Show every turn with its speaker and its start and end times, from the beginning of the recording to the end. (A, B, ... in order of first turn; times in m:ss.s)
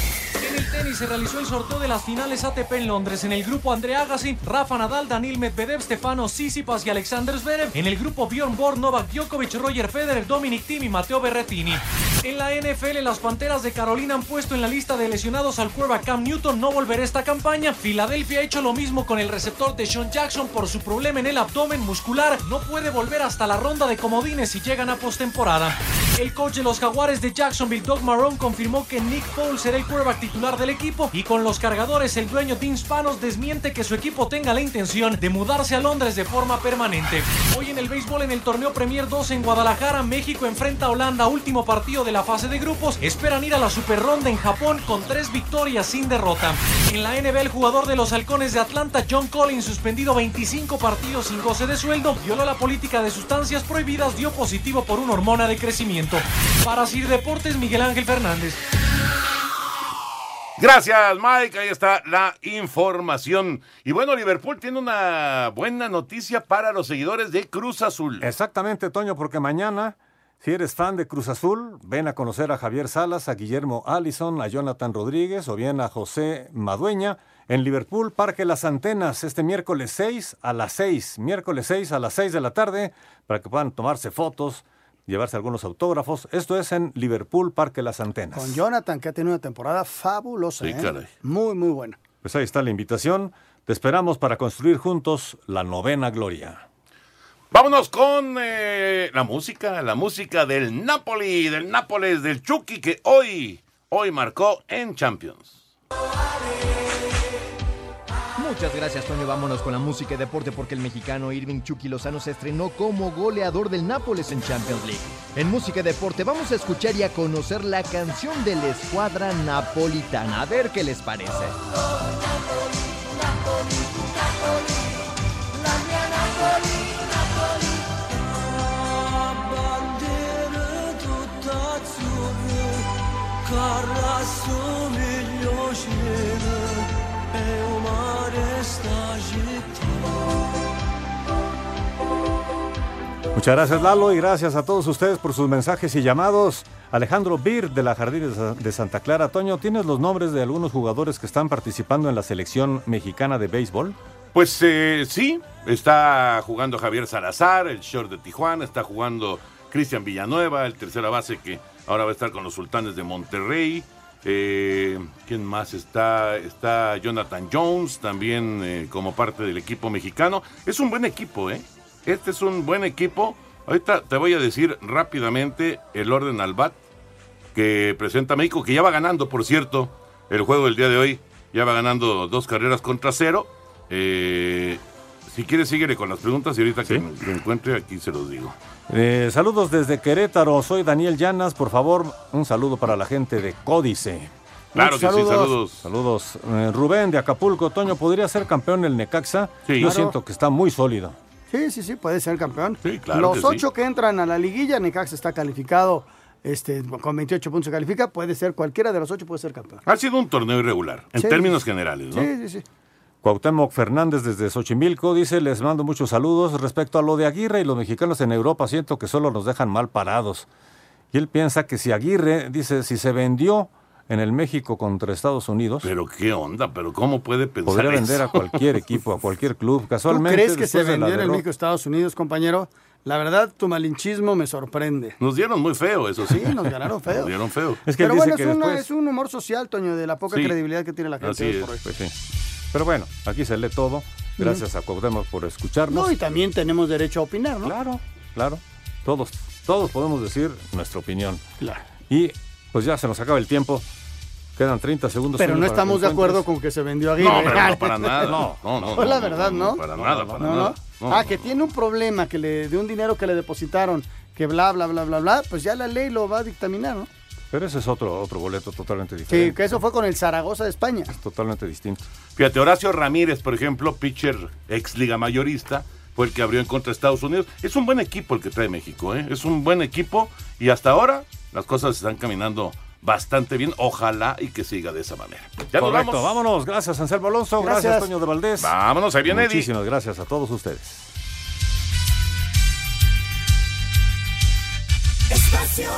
0:00.4-0:58.6 A
1:00.6-1:08.3 B
1:08.2-1:28.6 C
1:28.3-1:32.0 D
1:30.6-1:31.1 B
1:32.2-1:36.6 C
1:37.5-1:45.6 B
1:48.4-2:01.6 E
2:23.3-2:34.0 C
2:34.3-2:56.8 B
2:57.5-3:08.6 B
3:08.9-3:14.3 C
3:14.7-3:15.5 D
3:14.7-3:15.8 B
3:15.8-3:21.2 C
3:19.6-3:19.9 B
3:19.8-3:20.2 D
3:21.5-3:29.8 D
3:22.8-3:23.6 B
3:29.8-3:32.3 B
3:31.2-3:31.6 D
3:32.1-3:32.6 D
3:33.2-3:40.5 C
3:41.1-3:45.9 C
3:45.8-3:48.8 B
3:47.7-3:51.4 C
3:50.1-3:55.2 D
3:55.2-3:57.8 B
3:56.2-3:57.3 D
3:57.8-3:58.8 C
3:58.0-4:01.8 D
4:01.2-4:01.7 B
4:01.8-4:02.1 C
4:02.7-4:06.1 C
4:04.4-4:04.6 D
4:05.9-4:07.7 D
4:07.6-4:11.4 C
4:12.1-4:13.8 C
4:14.6-4:16.4 C
4:15.4-4:27.1 D
4:17.2-4:21.5 B
4:17.3-4:17.6 C
4:18.2-4:18.6 C
4:19.9-4:20.7 C
4:27.5-4:29.8 C
4:29.3-4:31.1 D
4:31.1-4:32.0 C
4:32.4-4:46.4 B
4:45.7-4:51.0 C
4:47.6-4:48.1 D
4:48.6-4:49.7 B